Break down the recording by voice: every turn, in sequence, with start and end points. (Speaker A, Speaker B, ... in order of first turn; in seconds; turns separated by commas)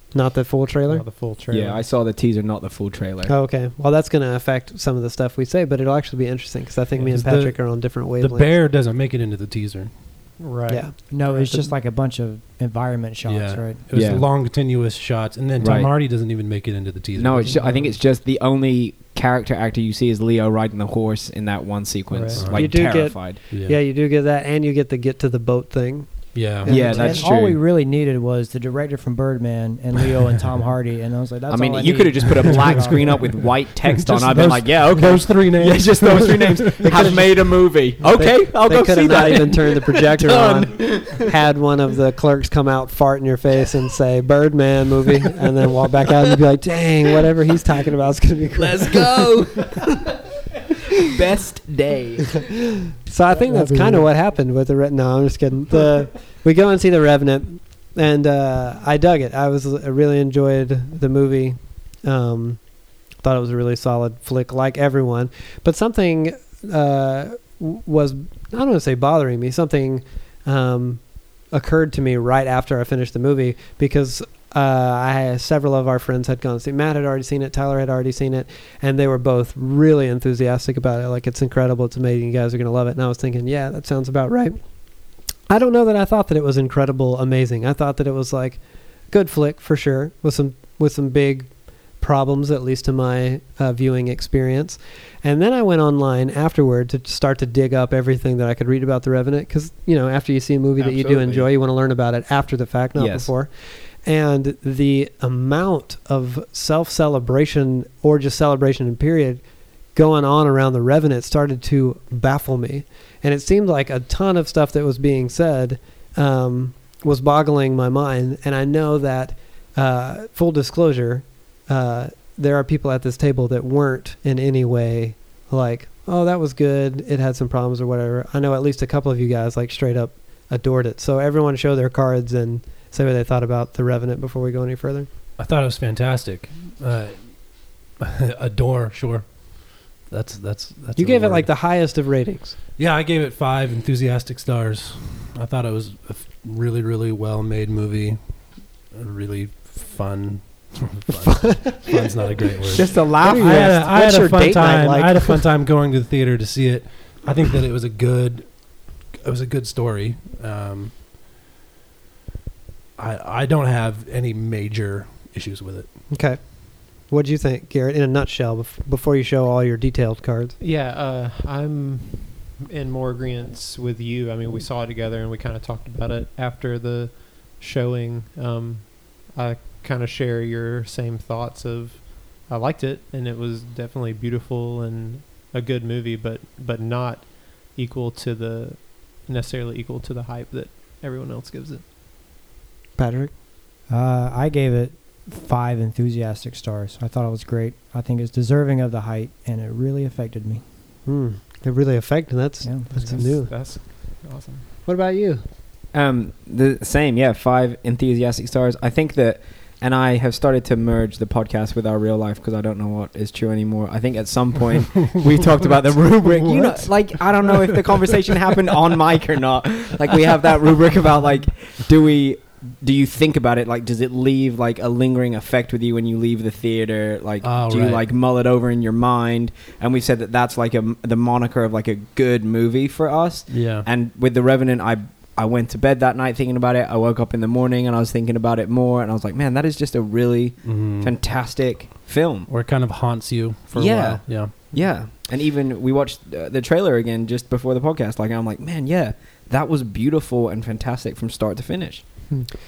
Speaker A: 0.1-1.1, Speaker B: 0.9-1.8, Speaker C: 1.5-3.3, Speaker A: 3.3-8.5, Speaker D: 7.0-9.9, Speaker B: 10.4-11.5, Speaker A: 10.7-10.9, Speaker E: 11.1-13.8, Speaker D: 13.3-17.8, Speaker C: 13.9-14.3, Speaker C: 15.6-15.9, Speaker C: 17.2-23.4, Speaker B: 17.6-17.9, Speaker B: 22.1-22.5, Speaker D: 22.3-22.9, Speaker A: 22.5-26.1, Speaker D: 23.5-23.8, Speaker D: 26.3-27.3, Speaker E: 26.6-33.4, Speaker C: 26.6-27.6, Speaker C: 31.5-41.3, Speaker D: 32.4-37.3, Speaker A: 36.9-49.6, Speaker C: 48.5-50.0, Speaker C: 51.0-52.5, Speaker A: 53.0-84.6, Speaker E: 53.5-54.0, Speaker A: 85.5-109.4, Speaker C: 100.8-101.4, Speaker C: 103.0-103.3, Speaker A: 109.9-135.1, Speaker D: 135.4-137.4, Speaker D: 137.9-141.6, Speaker A: 141.0-142.6, Speaker D: 142.8-148.2, Speaker D: 148.8-160.9, Speaker A: 152.7-155.4, Speaker D: 163.0-165.9, Speaker A: 166.1-170.6, Speaker B: 170.6-191.8, Speaker A: 192.9-193.3, Speaker E: 193.9-200.6, Speaker A: 201.1-203.5, Speaker E: 202.6-203.4, Speaker B: 202.9-204.6, Speaker A: 204.8-205.4, Speaker C: 205.9-242.5, Speaker D: 216.0-218.2, Speaker D: 227.4-228.0, Speaker D: 233.5-233.9, Speaker D: 240.6-241.1, Speaker D: 242.5-244.5, Speaker C: 243.7-252.0